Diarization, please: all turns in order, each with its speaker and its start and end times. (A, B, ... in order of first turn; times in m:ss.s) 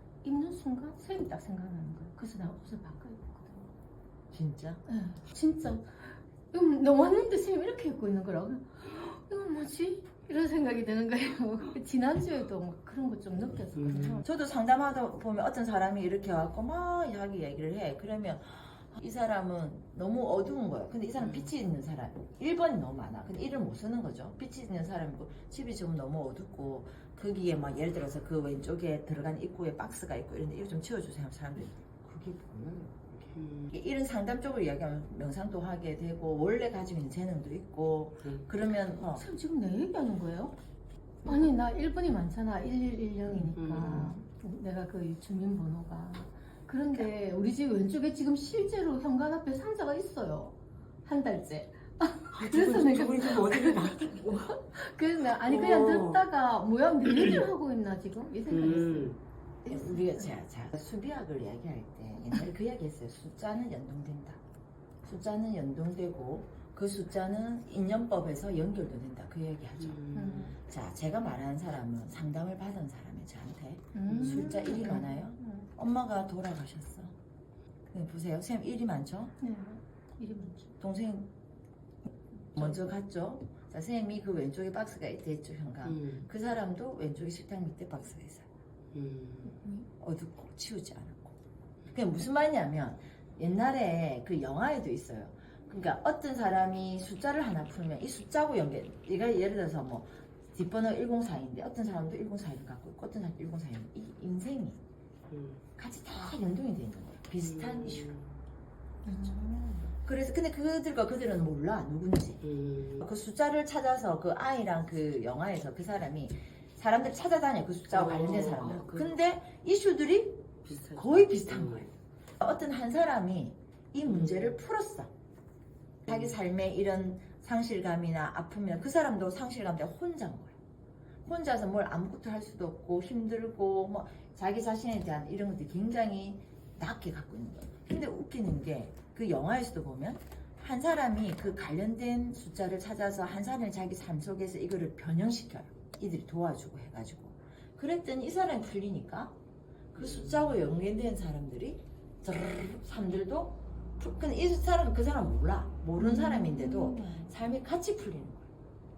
0:00.2-0:03.7 A
0:04.3-0:04.8 B
0:04.8-0:14.2 A
0:14.2-0:39.2 B
0:33.4-0:33.7 C
0:39.1-0:40.6 A
0:41.2-0:59.2 A
0:43.5-0:44.2 C
0:52.4-0:54.6 C
0:55.5-0:56.2 C
0:58.5-0:59.2 C
0:59.7-1:04.4 B
1:05.0-1:17.2 B
1:10.0-1:10.4 C
1:10.1-1:10.6 A
1:13.9-1:15.7 A
1:17.9-1:19.4 B
1:19.4-1:20.8 A
1:20.8-1:21.3 B
1:22.5-1:28.5 B
1:25.9-1:26.2 C
1:28.9-1:29.5 C
1:29.4-1:29.9 A
1:30.0-1:31.4 B
1:31.9-1:44.8 B
1:45.3-1:45.6 C
1:45.8-1:48.2 B
1:47.7-1:48.2 C
1:49.0-1:50.0 A
1:50.0-2:05.1 B
1:52.5-1:53.0 C
1:58.0-1:59.1 C
2:00.7-2:01.9 C
2:04.2-2:04.5 C
2:06.1-2:10.6 B
2:11.2-2:29.4 B
2:29.9-2:38.4 B
2:36.0-2:37.4 A